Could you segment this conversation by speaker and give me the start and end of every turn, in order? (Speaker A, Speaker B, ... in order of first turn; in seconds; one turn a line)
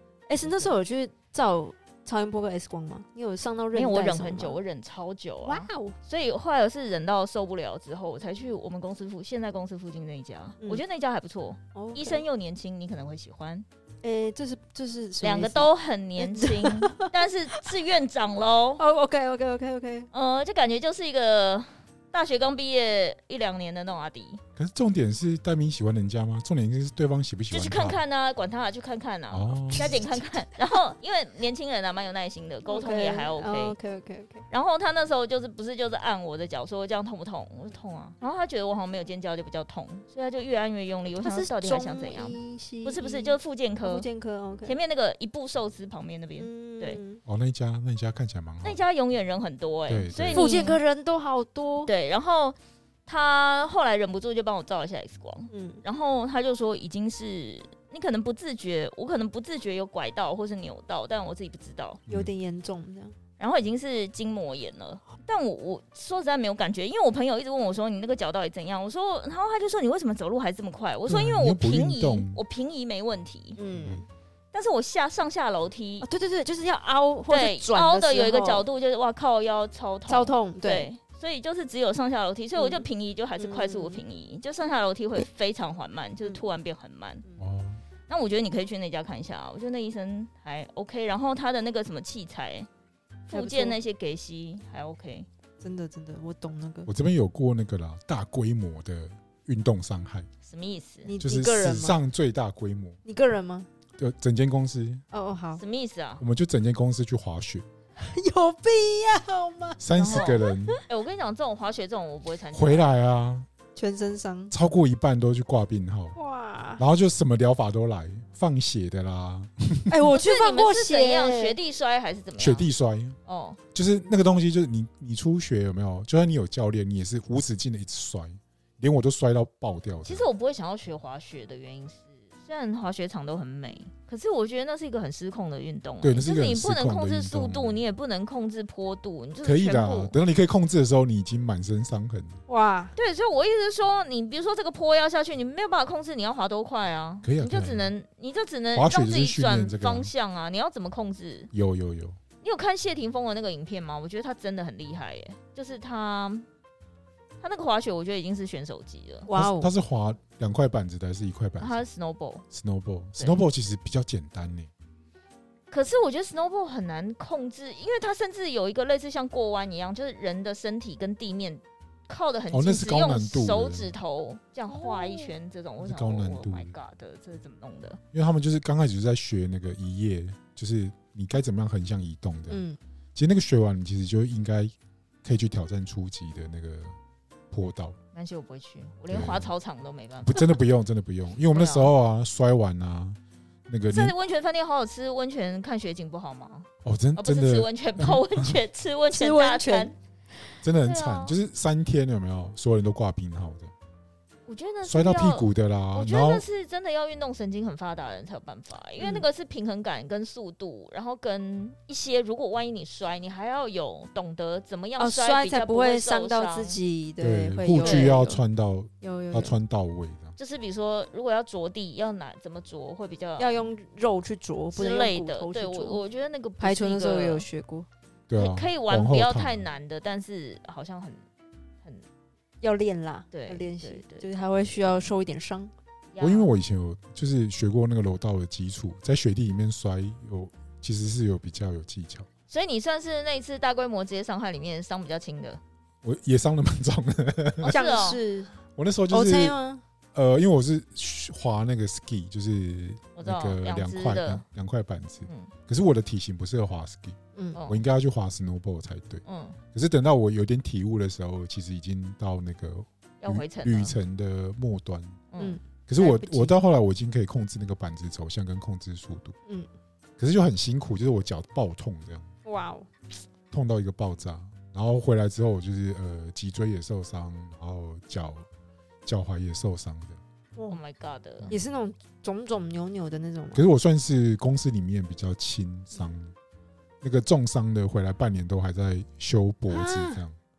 Speaker A: 0.3-4.6
Speaker B: 0.4-0.7
Speaker B: 3.7-13.7
Speaker A: 5.5-6.0
Speaker A: 11.8-12.2
Speaker A: 14.0-17.6
Speaker B: 15.2-18.8
Speaker A: 18.8-20.1
Speaker B: 20.1-24.4
Speaker C: 24.6-28.0
Speaker B: 27.5-33.8
Speaker C: 29.3-30.0
Speaker A: 32.7-34.4
Speaker B: 34.5-44.1
Speaker A: 41.2-44.8
Speaker B: 44.6-47.0
Speaker A: 46.4-47.2
Speaker C: 47.2-48.8
Speaker B: 48.6-50.8
Speaker C: 49.9-50.6
Speaker A: 50.3-51.9
Speaker B: 51.8-62.0
Speaker A: 55.5-55.9
Speaker A: 62.1-63.1
Speaker B: 63.4-73.6
Speaker C: 71.1-72.4
Speaker A: 73.6-74.1
Speaker B: 74.5-76.1
Speaker A: 76.0-78.7
Speaker B: 77.3-87.2
Speaker A: 80.1-80.9
Speaker A: 82.6-82.9
Speaker A: 83.4-84.0
Speaker C: 87.4-87.8
Speaker B: 88.1-92.7
Speaker B: 93.3-95.3
Speaker A: 93.3-93.8
Speaker A: 95.6-96.9
Speaker C: 96.9-100.3
Speaker B: 100.5-101.1
Speaker A: 101.1-102.0
Speaker C: 101.2-103.0
Speaker A: 103.0-103.7
Speaker C: 104.0-105.0
Speaker A: 105.1-105.6
Speaker B: 105.6-106.2
Speaker C: 106.2-107.7
Speaker A: 108.0-110.8
Speaker C: 109.8-110.8
Speaker B: 109.9-112.9
Speaker C: 112.5-113.5
Speaker A: 113.8-114.5
Speaker C: 114.5-116.2
Speaker A: 116.2-116.8
Speaker C: 116.8-120.0
Speaker A: 119.9-121.6
Speaker B: 120.1-122.7
Speaker C: 122.4-123.2
Speaker B: 123.3-123.6
Speaker C: 123.7-130.2
Speaker B: 130.1-140.1
Speaker C: 136.0-137.8
Speaker C: 139.4-142.4
Speaker A: 142.5-142.9
Speaker B: 143.0-151.5
Speaker C: 147.2-147.9
Speaker C: 148.7-150.1
Speaker C: 151.5-152.2
Speaker B: 152.4-156.5
Speaker B: 157.4-159.3
Speaker A: 159.3-159.7
Speaker C: 159.3-161.8
Speaker B: 161.6-162.4
Speaker C: 162.5-164.7
Speaker B: 163.2-163.4
Speaker B: 165.7-178.0
Speaker C: 172.5-173.9
Speaker A: 174.7-175.3
Speaker C: 175.8-176.8
Speaker C: 178.1-182.6
Speaker A: 182.5-182.8
Speaker C: 183.2-184.7
Speaker C: 185.2-187.0
Speaker C: 187.5-188.0
Speaker B: 188.1-190.6
Speaker C: 189.1-189.5
Speaker C: 190.2-194.2
Speaker B: 191.5-191.9
Speaker B: 193.9-199.9
Speaker C: 196.8-198.6
Speaker A: 199.1-199.9
Speaker C: 200.6-203.7
Speaker B: 200.8-201.4
Speaker B: 204.5-216.8
Speaker C: 204.8-206.5
Speaker A: 209.0-209.3
Speaker A: 215.0-218.4
Speaker C: 217.2-220.3
Speaker B: 217.8-218.2
Speaker A: 219.0-219.6
Speaker B: 220.4-223.6
Speaker A: 223.4-226.0
Speaker B: 224.8-227.5
Speaker A: 226.6-227.9
Speaker C: 228.3-229.7
Speaker B: 228.4-231.2
Speaker A: 232.6-235.7
Speaker B: 233.3-234.3
Speaker B: 236.1-236.5
Speaker C: 236.2-242.3
Speaker B: 242.5-245.6
Speaker C: 246.0-247.8
Speaker B: 247.6-248.2
Speaker A: 247.7-248.5
Speaker C: 248.7-249.6
Speaker A: 249.1-249.8
Speaker C: 250.1-265.2
Speaker B: 253.2-254.4
Speaker B: 255.3-255.5
Speaker A: 257.4-257.6
Speaker B: 257.6-257.8
Speaker B: 259.2-259.6
Speaker B: 263.2-263.9
Speaker B: 265.3-265.6
Speaker A: 265.4-266.6
Speaker C: 265.9-269.4
Speaker C: 270.2-272.3
Speaker A: 272.4-272.9
Speaker C: 273.5-278.5
Speaker C: 279.1-280.2
Speaker B: 280.7-281.5
Speaker A: 281.5-283.6
Speaker C: 283.5-286.3
Speaker C: 287.0-290.4
Speaker A: 289.7-290.2